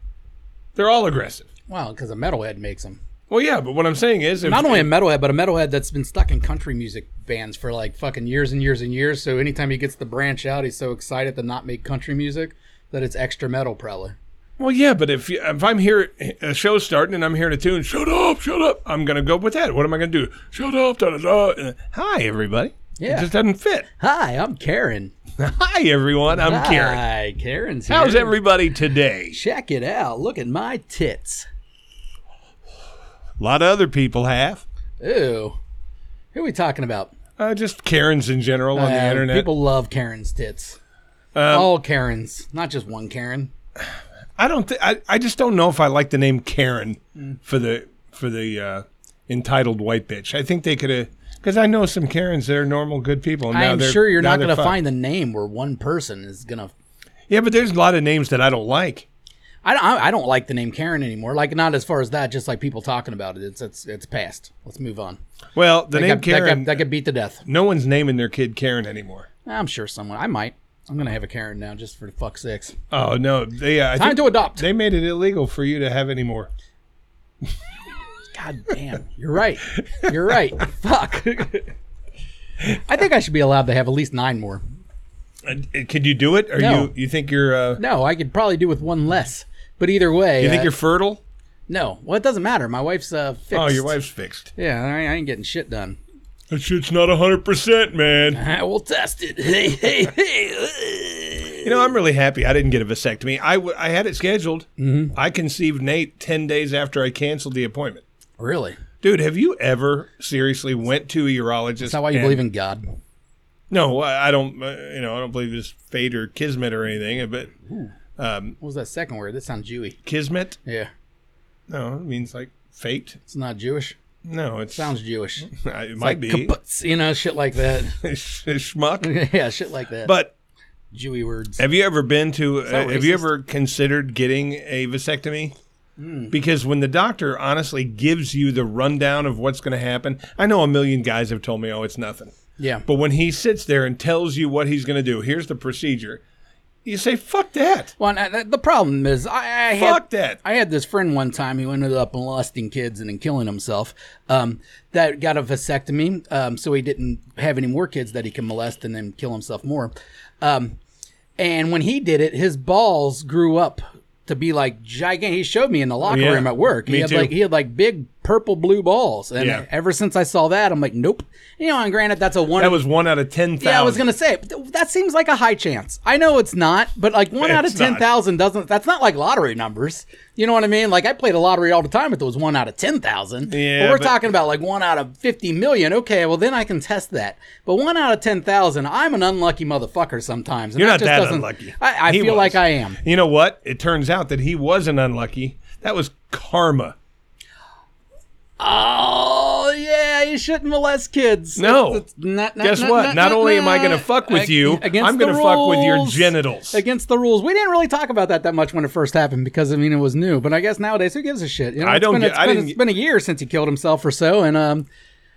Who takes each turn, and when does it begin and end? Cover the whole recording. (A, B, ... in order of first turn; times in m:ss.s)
0:00.8-0:01.5 A
0:01.7-0:03.0 B
0:03.3-0:04.9 A
0:04.4-0:14.2 B
0:14.6-0:23.9 A
0:23.0-0:23.3 B
0:24.0-0:25.1 B
0:25.4-0:27.0 A
0:26.4-0:28.4 B
0:27.9-0:29.4 A
0:29.3-0:31.5 B
0:33.4-0:34.6 A
0:35.0-0:35.6 B
0:36.3-0:37.1 B
0:37.4-0:39.5 A
0:38.8-0:40.8 B
0:41.3-0:41.7 A
0:41.5-0:43.5 B
0:44.4-0:54.8 A
0:53.5-0:56.7 B
0:57.3-0:59.1 A
0:59.6-1:05.2 B
1:05.6-1:06.8 A
1:05.9-1:07.4 B
1:07.4-1:09.3 A
1:09.5-1:12.8 B
1:12.9-1:16.5 A
1:14.0-1:14.6 B
1:18.3-1:21.7 B
1:22.7-1:24.6 B
1:25.4-1:27.8 A
1:26.6-1:26.9 B
1:27.8-1:30.7 B
1:30.4-1:31.2 A
1:31.7-1:33.9 B
1:33.5-1:34.5 A
1:34.6-1:36.0 B
1:36.5-1:38.4 A
1:38.4-1:41.7 B
1:41.6-1:48.0 A
1:44.8-1:45.2 B
1:48.4-1:48.8 B
1:49.0-1:52.4 A
1:51.8-1:52.9 B
1:53.7-1:57.5 A
1:57.6-1:57.9 B
1:58.2-1:58.6 A
1:58.6-2:00.0 B
2:00.0-2:00.6 A
2:00.6-2:00.9 B
2:01.7-2:03.2 A
2:03.3-2:04.0 B
2:04.2-2:04.9 A
2:04.7-2:08.0 B
2:05.4-2:06.5 A
2:08.0-2:09.1 A
2:09.0-2:10.1 B
2:10.0-2:10.3 A
2:10.9-2:11.6 B
2:11.6-2:15.6 A
2:12.7-2:13.3 B
2:16.0-2:16.3 B
2:16.3-2:22.3 A
2:22.6-2:22.8 B
2:22.9-2:26.2 A
2:26.8-2:27.9 A
2:28.0-2:40.8 B
2:29.8-2:30.4 A
2:41.4-2:52.8 B
2:46.0-2:47.4 A
2:49.4-2:49.6 A
2:52.6-2:54.0 A
2:53.6-3:13.0 B
2:57.4-2:58.1 A
3:03.4-3:04.2 A
3:10.8-3:17.0 A
3:18.6-3:34.9 B
3:21.6-3:22.0 A
3:22.6-3:26.8 A
3:31.8-3:32.8 A